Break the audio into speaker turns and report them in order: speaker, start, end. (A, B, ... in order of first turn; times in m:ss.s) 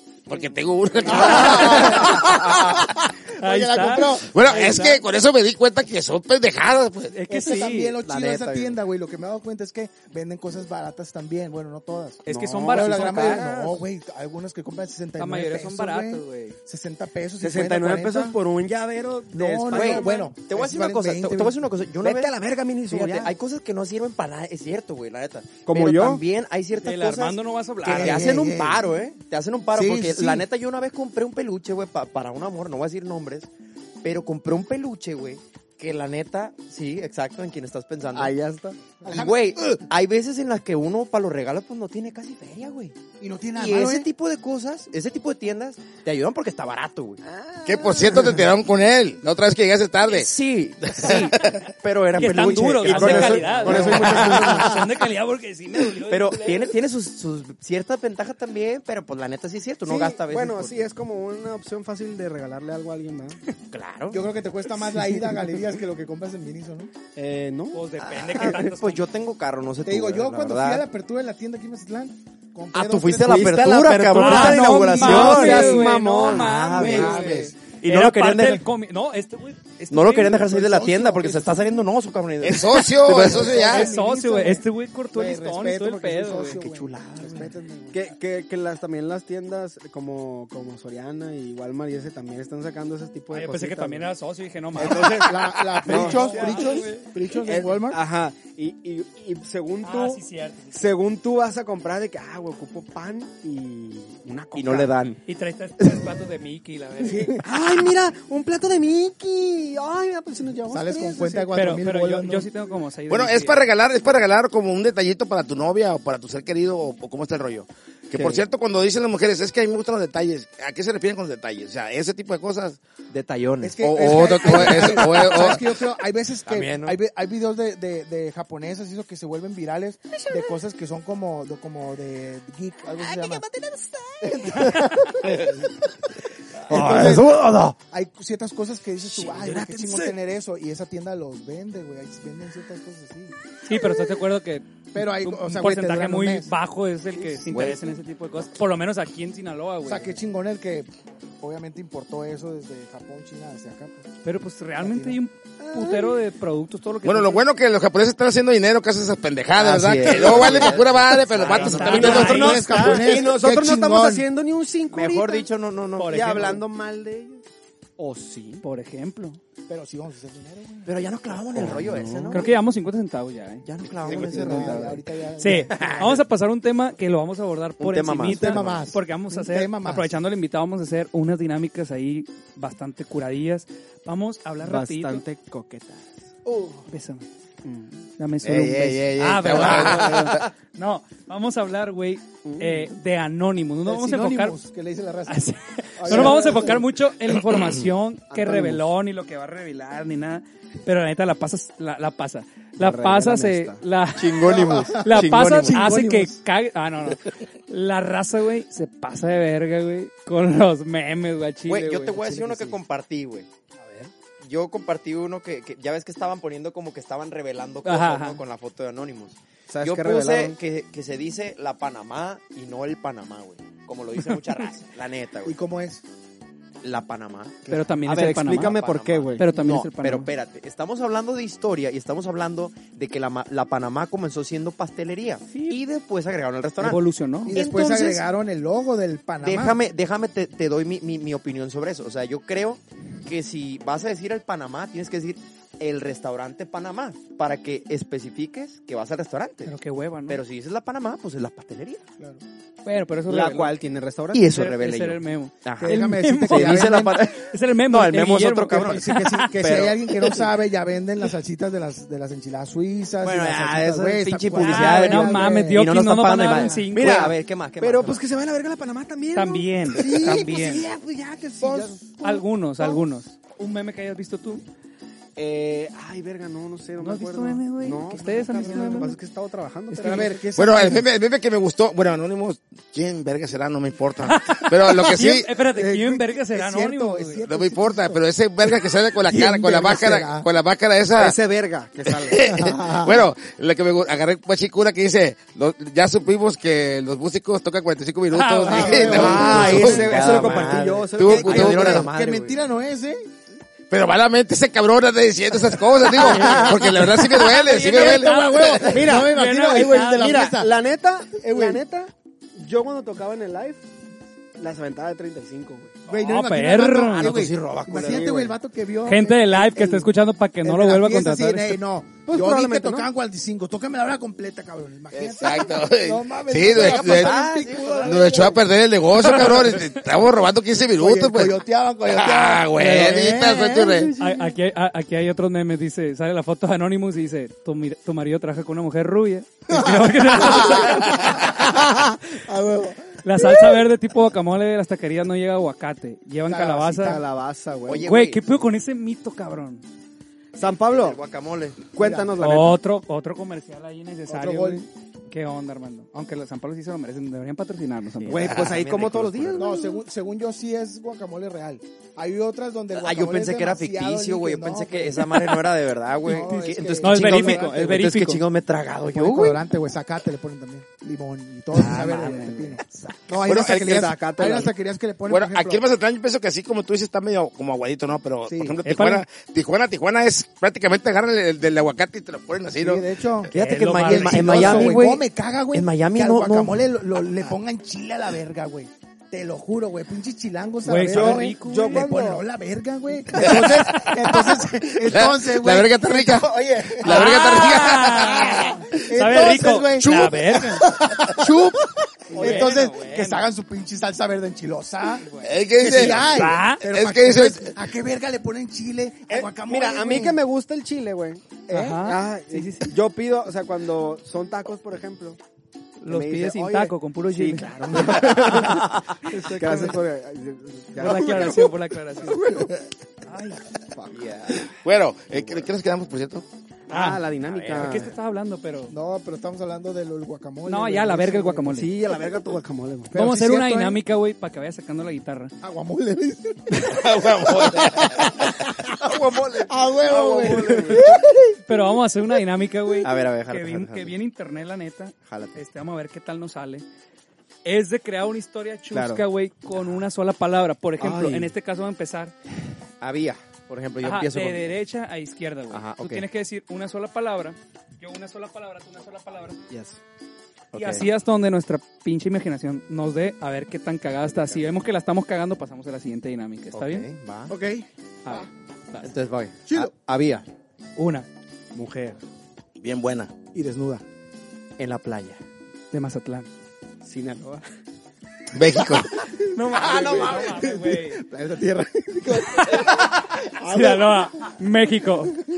0:00.3-0:02.9 A
0:01.0-0:04.3 B
0:01.2-0:01.9 C
0:03.4-0:05.0 D
0:04.2-0:07.1 A
0:07.1-0:08.0 D
0:07.3-0:18.4 B
0:08.0-0:08.8 E
0:12.2-0:13.8 D
0:12.3-0:13.6 C
0:15.2-0:16.6 D
0:17.4-0:20.3 C
0:19.3-0:21.6 B
0:19.7-0:22.3 E
0:22.0-0:23.3 C
0:22.8-0:33.5 E
0:25.6-0:26.2 C
0:26.8-0:28.5 D
0:27.8-0:28.9 B
0:29.7-0:30.4 B
0:34.0-0:38.3 E
0:38.1-0:39.0 C
0:39.0-0:43.0 E
0:39.0-0:39.8 B
0:43.2-0:44.1 B
0:43.5-0:47.2 E
0:47.2-0:48.3 C
0:47.6-0:50.3 A
0:50.1-0:54.7 E
0:50.9-0:51.6 A
0:52.2-0:56.7 D
0:52.8-0:54.8 C
0:53.6-0:54.3 B
0:56.1-1:00.9 E
0:59.8-1:03.4 C
1:03.7-1:04.3 E
1:04.1-1:06.9 B
1:05.0-1:05.4 C
1:07.1-1:07.8 C
1:07.7-1:09.0 D
1:08.0-1:10.8 E
1:09.8-1:13.5 B
1:12.7-1:18.6 E
1:13.2-1:17.5 C
1:14.1-1:21.5 D
1:14.9-1:15.7 B
1:16.8-1:17.5 B
1:19.9-1:23.6 E
1:22.4-1:23.9 A
1:23.0-1:28.0 B
1:23.6-1:26.6 D
1:26.4-1:27.5 E
1:27.9-1:34.1 C
1:33.3-1:37.1 D
1:34.8-1:36.9 C
1:34.8-1:38.0 B
1:37.4-1:45.0 C
1:39.8-1:40.9 D
1:44.5-1:45.2 E
1:45.2-1:47.4 D
1:47.0-1:51.6 C
1:50.7-1:52.5 B
1:51.5-1:53.7 D
1:53.1-2:02.8 A
1:58.1-1:58.4 C
2:03.1-2:05.4 E
2:03.6-2:13.4 B
2:03.8-2:05.8 A
2:06.4-2:07.0 E
2:14.2-2:15.7 B
2:14.4-2:15.2 E
2:16.7-2:17.4 B
2:16.7-2:17.8 E
2:17.9-2:23.3 B
2:19.1-2:20.0 E
2:19.4-2:20.0 C
2:23.6-2:30.2 D
2:24.9-2:26.5 B
2:27.2-2:27.7 C
2:29.8-2:30.9 B
2:31.4-2:34.1 B
2:34.2-2:37.4 D
2:34.8-2:35.2 B
2:35.6-2:36.2 C
2:37.0-2:42.6 A
2:39.6-2:43.0 E
2:41.5-2:42.8 D
2:41.5-2:45.5 C
2:41.7-2:44.3 B
2:44.9-2:46.5 E
2:46.0-2:46.6 D
2:46.0-2:47.4 C
2:48.0-2:48.6 C
2:48.6-2:49.4 D
2:49.7-2:51.0 B
2:50.8-2:52.5 E
2:51.5-2:52.5 C
2:52.3-2:54.5 D
2:53.6-2:55.0 E
2:54.0-2:56.1 B
2:54.1-2:55.0 C
2:55.4-3:05.2 D
2:57.8-2:58.8 E
2:58.2-3:00.2 B
3:04.6-3:06.8 C
3:06.9-3:07.3 D
3:07.6-3:07.9 C
3:08.2-3:14.6 D
3:08.4-3:10.4 A
3:09.7-3:10.4 C
3:12.4-3:12.9 C
3:13.8-3:15.4 B
3:15.3-3:32.7 D
3:16.0-3:16.8 B
3:16.0-3:16.8 C
3:18.3-3:18.8 C
3:22.8-3:23.8 C
3:24.2-3:25.8 E
3:24.3-3:26.4 B
3:31.7-3:33.5 E
3:33.8-3:34.1 D
3:34.4-3:45.6 E
3:37.8-3:38.4 D
3:39.7-3:40.5 C
3:44.2-3:44.7 D
3:45.4-3:46.0 B
3:46.8-3:57.0 E
3:47.7-3:48.8 D
3:48.0-3:49.5 C
3:49.4-3:50.3 D
3:56.8-3:57.6 D
3:57.4-3:59.8 B
3:57.5-3:58.2 E
3:57.6-3:58.1 C
3:59.4-4:09.7 E
4:09.6-4:10.4 D
4:10.3-4:12.0 E
4:12.8-4:13.8 D
4:13.3-4:14.5 C
4:14.3-4:20.5 E
4:14.4-4:19.4 D
4:15.8-4:17.2 B
4:18.7-4:25.9 B
4:23.2-4:28.2 E
4:24.6-4:27.3 D
4:26.5-4:26.8 B
4:26.9-4:33.0 C
4:29.3-4:30.9 D
4:31.6-4:32.0 B
4:32.2-4:34.6 D
4:35.4-4:40.4 C
4:37.0-4:39.2 D
4:39.9-4:40.3 D
4:39.9-4:41.0 B
4:40.5-4:45.5 A
4:44.2-4:47.4 D
4:45.6-4:48.7 B
4:47.4-4:51.4 A
4:49.2-4:50.4 B
4:51.1-4:52.4 C
4:52.1-5:00.2 A
4:52.4-4:53.2 B
4:58.3-4:59.6 D
4:58.6-5:00.8 B
4:59.1-5:02.0 C
4:59.1-5:02.6 E
5:01.1-5:02.1 A
5:01.4-5:03.3 B
5:03.9-5:08.8 A
5:06.2-5:06.9 D
5:06.2-5:10.8 B
5:07.4-5:10.5 D
5:08.8-5:13.8 C
5:11.4-5:11.8 B
5:14.6-5:16.0 C
5:16.1-5:20.1 B
5:16.2-5:17.3 D
5:17.1-5:18.5 E
5:18.0-5:18.5 C
5:19.0-5:21.8 D
5:20.6-5:28.6 B
5:22.2-5:23.1 C
5:25.2-5:27.4 A
5:26.7-5:28.5 E
5:28.0-5:34.1 A
5:29.2-5:30.0 D
5:31.0-5:34.2 B
5:32.8-5:33.2 D
5:34.1-5:34.5 C
5:34.2-5:41.4 D
5:39.7-5:43.7 B
5:43.2-5:47.2 D
5:46.4-5:47.2 B
5:47.0-5:48.1 C
5:47.8-5:48.5 E
5:48.0-5:49.8 D
5:50.5-5:51.2 C
5:50.9-5:51.8 E
5:51.9-5:52.8 C
5:52.0-5:52.3 B
5:52.4-5:58.6 D
5:54.3-5:54.9 B
5:58.2-5:59.7 E
5:58.2-6:00.0 C
5:59.6-6:05.6 B
6:02.9-6:09.6 E
6:06.2-6:08.0 B
6:07.0-6:08.4 D
6:09.1-6:15.8 B
6:11.7-6:13.0 D
6:13.3-6:14.1 A
6:13.7-6:14.7 C
6:15.3-6:23.0 A
6:18.5-6:18.8 B
6:18.8-6:19.2 D
6:22.8-6:37.8 B
6:23.5-6:26.8 E
6:23.5-6:25.0 D
6:30.8-6:32.1 D
6:31.0-6:32.4 C
6:33.3-6:38.8 A
6:37.0-6:40.9 D
6:38.4-6:50.4 B
6:42.3-6:42.8 C
6:42.4-6:43.3 E
6:42.4-6:43.4 D
6:45.4-6:47.7 A
6:46.1-6:46.8 D
6:49.3-6:55.4 C
6:51.7-6:52.9 D
6:56.0-7:00.0 D
6:56.1-7:01.7 C
7:01.0-7:02.6 D
7:02.3-7:02.7 C
7:03.2-7:03.6 D
7:03.9-7:04.4 C
7:04.1-7:04.6 E
7:04.7-7:06.4 A
7:06.9-7:08.1 C
7:06.9-7:08.9 D
7:07.4-7:08.1 E
7:08.9-7:11.7 B
7:10.6-7:12.0 D
7:11.7-7:13.1 C
7:13.1-7:14.0 B
7:13.1-7:15.5 D
7:15.6-7:19.0 B
7:16.8-7:18.4 A
7:18.9-7:21.1 E
7:19.6-7:21.5 B
7:20.4-7:21.2 C
7:20.7-7:21.0 D
7:21.6-7:26.8 D
7:23.0-7:24.1 E
7:25.2-7:25.6 E
7:27.6-7:32.3 D
7:28.9-7:29.2 C
7:31.0-7:31.5 C
7:31.1-7:31.3 E
7:33.0-7:34.7 E
7:34.0-7:39.6 D
7:35.7-7:36.3 E
7:39.7-7:40.0 C
7:40.7-7:41.1 E
7:40.7-7:47.1 D
7:46.7-7:47.5 E
7:47.5-7:48.4 B
7:48.2-7:49.1 D
7:49.0-7:50.5 E
7:51.0-7:51.3 D
7:51.7-7:52.2 C
7:52.8-7:53.3 A
7:53.5-7:54.0 B
7:54.8-7:55.4 E
7:55.9-7:56.5 D
7:57.0-7:57.6 C
7:58.5-7:59.1 A
7:59.5-8:01.2 D
7:59.6-8:04.3 B
8:02.4-8:03.1 D
8:03.6-8:05.4 D